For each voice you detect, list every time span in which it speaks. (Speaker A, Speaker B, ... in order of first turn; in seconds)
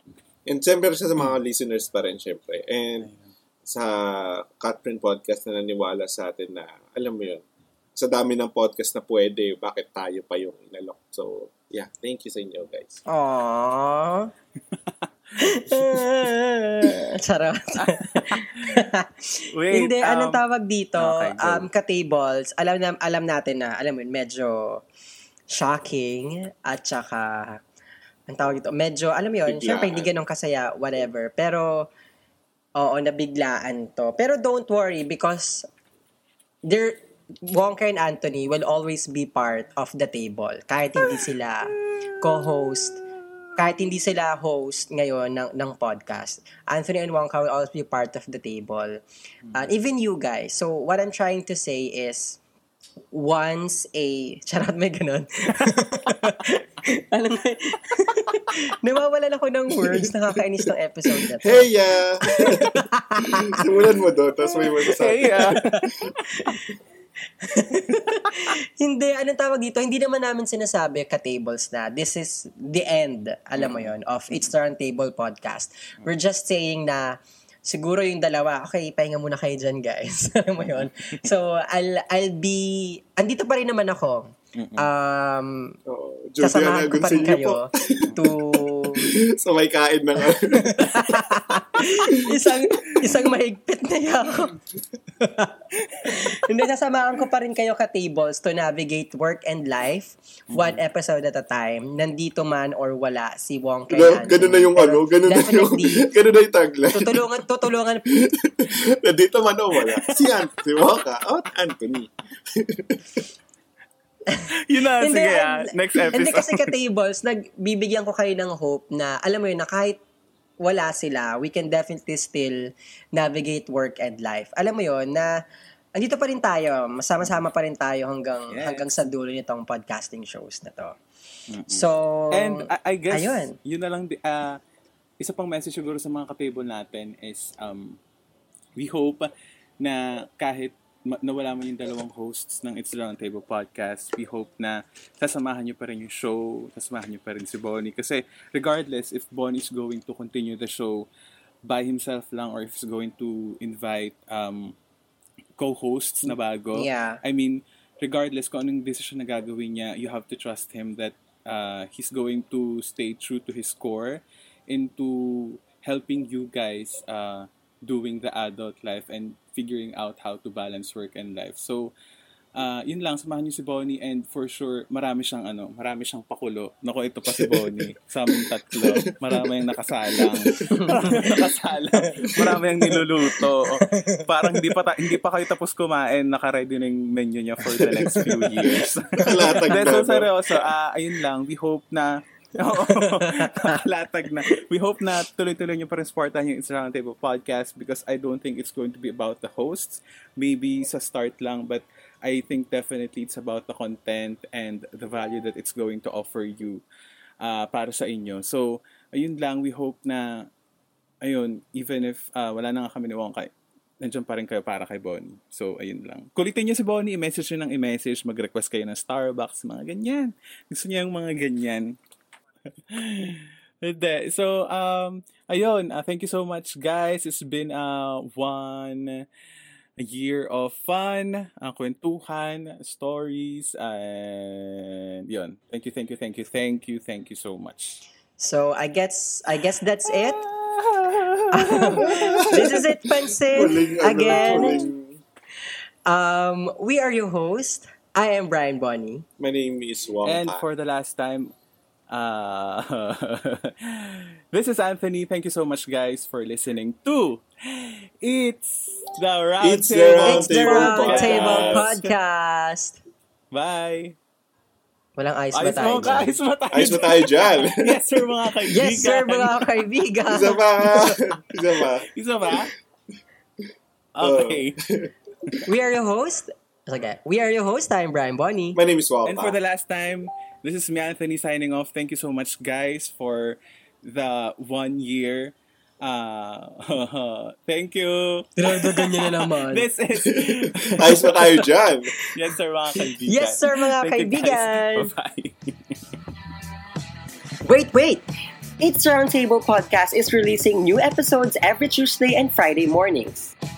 Speaker A: 0.5-3.1, 3.7-7.4, 8.0-13.0, 29.5-30.1, 61.4-62.7, 63.5-66.1, 85.9-91.2, 103.9-107.2, 108.1-113.2, 177.3-177.8, 178.3-179.5, 180.1-180.5, 182.2-182.6, 189.2-190.3, 242.0-242.8, 243.5-245.2, 249.4-250.6, 259.6-261.9, 266.7-268.0, 270.3-272.1, 274.2-275.1, 278.8-279.6, 290.2-292.1
Speaker B: 3.0-3.3, 15.5-16.1, 17.8-18.9, 19.5-20.4, 21.0-21.7, 64.8-66.6, 73.6-73.9, 80.7-81.0, 84.6-84.9, 100.5-100.8, 114.5-116.7, 128.5-128.9, 131.5-134.6, 135.2-138.0, 138.8-139.3, 139.8-151.1, 151.7-154.8, 155.6-171.9, 172.6-206.8, 207.4-210.5, 211.2-222.0, 222.9-229.2, 230.0-238.0, 240.1-242.8, 244.2-244.8, 250.2-251.5, 252.1-262.1, 263.5-264.2, 265.5-269.8, 272.1-272.7, 274.1-274.8, 279.3-296.0
Speaker C: 13.1-14.3, 15.4-24.8, 25.5-27.6, 28.3-31.9, 32.8-35.7, 36.6-43.0, 43.6-49.0, 49.5-52.4, 53.1-61.7, 62.3-63.6, 65.4-66.6, 67.4-85.8, 86.4-89.1, 90.5-94.6, 95.2-106.1, 106.9-108.1, 114.3-120.0, 120.6-122.6, 123.2-125.3, 126.0-131.0, 131.7-133.6, 156.7-157.2, 180.7-181.3, 181.9-182.4, 182.9-184.8, 187.8-188.7, 189.3-189.8, 192.8-193.8, 238.4-240.4, 241.5-244.8, 246.1-249.2, 260.2-263.0, 265.2-266.3, 268.7-271.2, 275.7-278.8, 288.6-289.9, 293.2-295.1, 297.6-298.2, 298.8-303.4